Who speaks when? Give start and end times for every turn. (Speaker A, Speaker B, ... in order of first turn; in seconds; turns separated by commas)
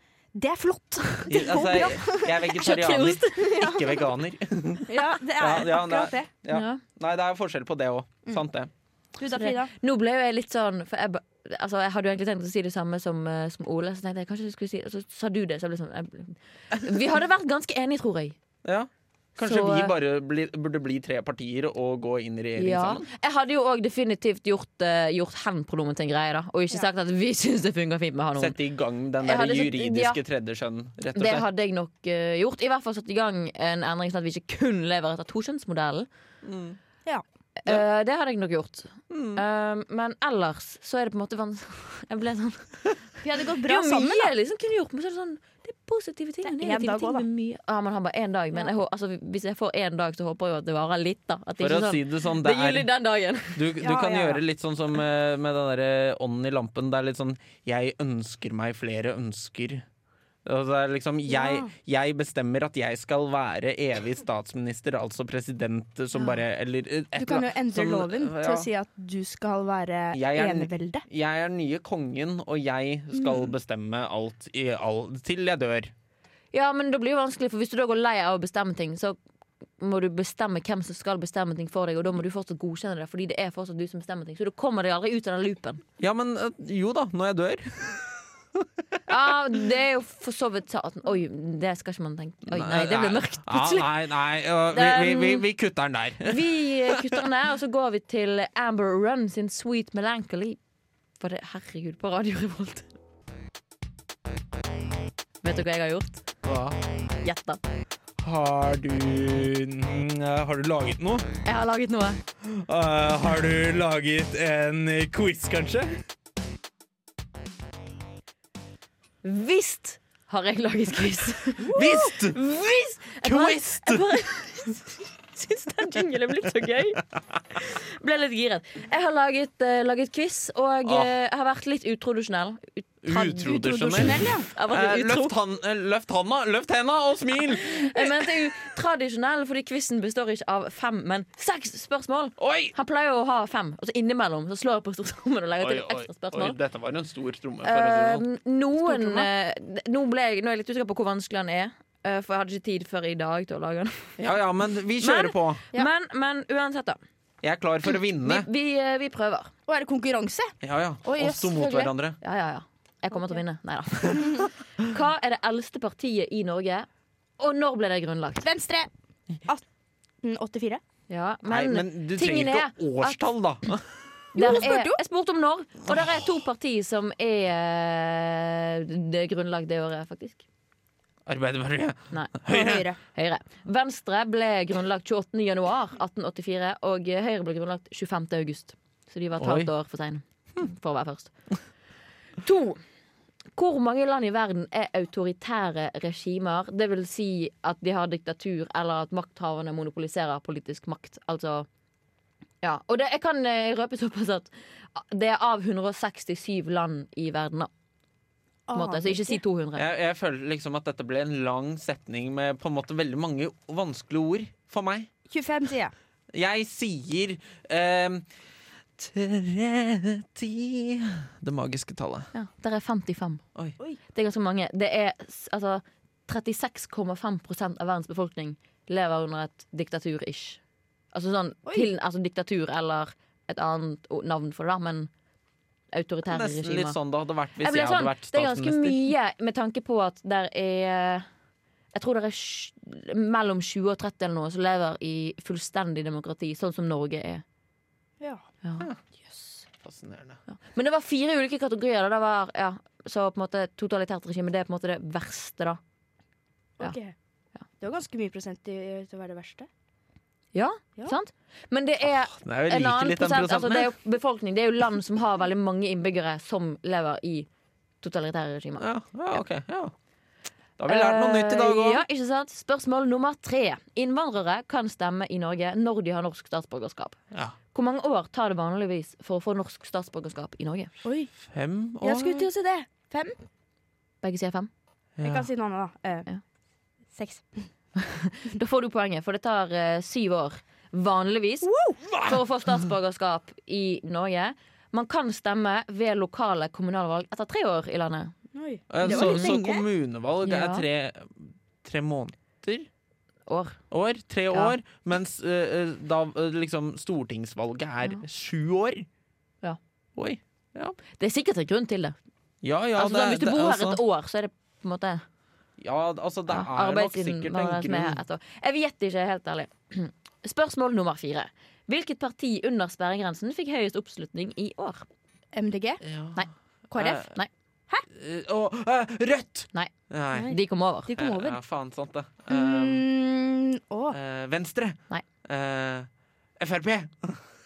Speaker A: 0.3-2.4, Speaker B: 1.3-8.7, Speaker C: 2.5-3.7, Speaker A: 3.4-3.9, Speaker A: 4.9-6.3, Speaker C: 6.5-6.8, Speaker A: 9.2-9.7, Speaker C: 9.4-18.4, Speaker B: 18.6-23.1, Speaker C: 19.4-19.9, Speaker C: 22.6-28.6, Speaker B: 28.4-31.5, Speaker C: 29.2-30.2, Speaker C: 31.1-36.1, Speaker B: 36.4-36.8, Speaker C: 37.6-42.8, Speaker B: 39.1-39.4, Speaker A: 43.2-44.3, Speaker C: 43.6-53.7, Speaker A: 46.4-47.2, Speaker B: 51.6-52.9, Speaker B: 53.5-59.9, Speaker A: 53.8-54.4, Speaker B: 60.5-68.7, Speaker A: 61.3-61.7, Speaker A: 67.2-71.0, Speaker B: 70.1-75.9, Speaker C: 76.5-79.2, Speaker C: 79.8-85.8, Speaker B: 86.0-88.7, Speaker C: 89.1-93.9, Speaker B: 92.5-97.2, Speaker C: 94.7-95.5, Speaker C: 96.2-100.6, Speaker C: 101.2-102.9, Speaker C: 105.4-106.3, Speaker B: 106.4-106.8, Speaker C: 107.2-107.6, Speaker B: 108.2-111.3, Speaker C: 111.4-112.2, Speaker B: 112.4-116.0, Speaker C: 119.2-127.0, Speaker B: 121.6-122.5, Speaker B: 123.2-124.1, Speaker C: 127.5-135.3, Speaker B: 130.9-131.1, Speaker B: 133.0-138.3, Speaker A: 133.7-134.5, Speaker C: 137.6-146.6, Speaker B: 142.4-142.8, Speaker B: 145.6-148.2, Speaker C: 147.6-154.2, Speaker B: 148.9-149.2, Speaker B: 154.2-155.6, Speaker C: 155.0-157.0, Speaker B: 157.4-158.5, Speaker C: 158.2-159.5, Speaker A: 159.7-160.5, Speaker B: 160.6-162.2, Speaker C: 161.1-166.9, Speaker C: 167.4-168.5, Speaker A: 168.4-168.9, Speaker A: 170.2-170.8, Speaker C: 171.1-173.3, Speaker B: 171.5-173.9, Speaker C: 174.3-180.4, Speaker A: 174.4-175.0, Speaker B: 175.9-176.2, Speaker B: 181.3-182.9, Speaker C: 182.1-182.5, Speaker A: 182.5-183.0, Speaker C: 183.0-191.3, Speaker B: 189.4-189.7, Speaker C: 192.4-192.8, Speaker C: 193.6-201.7, Speaker C: 202.6-207.7, Speaker A: 208.7-209.4, Speaker C: 208.7-209.8, Speaker B: 209.8-215.1, Speaker A: 215.3-215.9, Speaker B: 216.3-218.3, Speaker B: 219.0-222.3, Speaker C: 222.3-223.4, Speaker C: 224.1-230.6, Speaker C: 231.1-235.1, Speaker C: 235.9-237.0, Speaker B: 236.3-239.0, Speaker C: 237.6-241.3, Speaker C: 241.9-247.4, Speaker C: 248.6-249.6, Speaker B: 249.8-250.4, Speaker C: 250.5-255.8, Speaker A: 256.8-257.1, Speaker A: 257.8-259.7, Speaker C: 260.5-267.5, Speaker B: 262.1-263.9, Speaker C: 268.0-268.9, Speaker B: 268.8-269.9, Speaker B: 270.8-272.0, Speaker C: 270.9-277.2, Speaker C: 277.7-280.9, Speaker A: 281.0-281.3, Speaker B: 281.4-282.5, Speaker A: 282.0-283.4, Speaker C: 284.2-284.7, Speaker B: 285.2-285.5, Speaker A: 285.2-286.3, Speaker A: 287.1-287.7, Speaker C: 288.0-298.3, Speaker A: 291.6-292.0, Speaker B: 292.1-292.8, Speaker A: 298.5-299.9, Speaker B: 298.9-302.9, Speaker C: 299.0-299.5, Speaker C: 300.4-300.9, Speaker C: 303.5-303.8, Speaker B: 303.9-309.1, Speaker B: 310.2-311.0, Speaker C: 311.2-312.2, Speaker B: 312.6-314.0, Speaker C: 313.0-315.2, Speaker B: 315.8-318.2, Speaker C: 316.5-325.1, Speaker A: 325.5-326.0, Speaker B: 326.0-326.4, Speaker A: 326.9-327.3, Speaker C: 327.2-327.5, Speaker B: 328.1-330.6, Speaker A: 330.4-331.6, Speaker C: 330.5-331.1, Speaker B: 331.2-333.1, Speaker A: 332.5-334.2, Speaker B: 334.1-337.4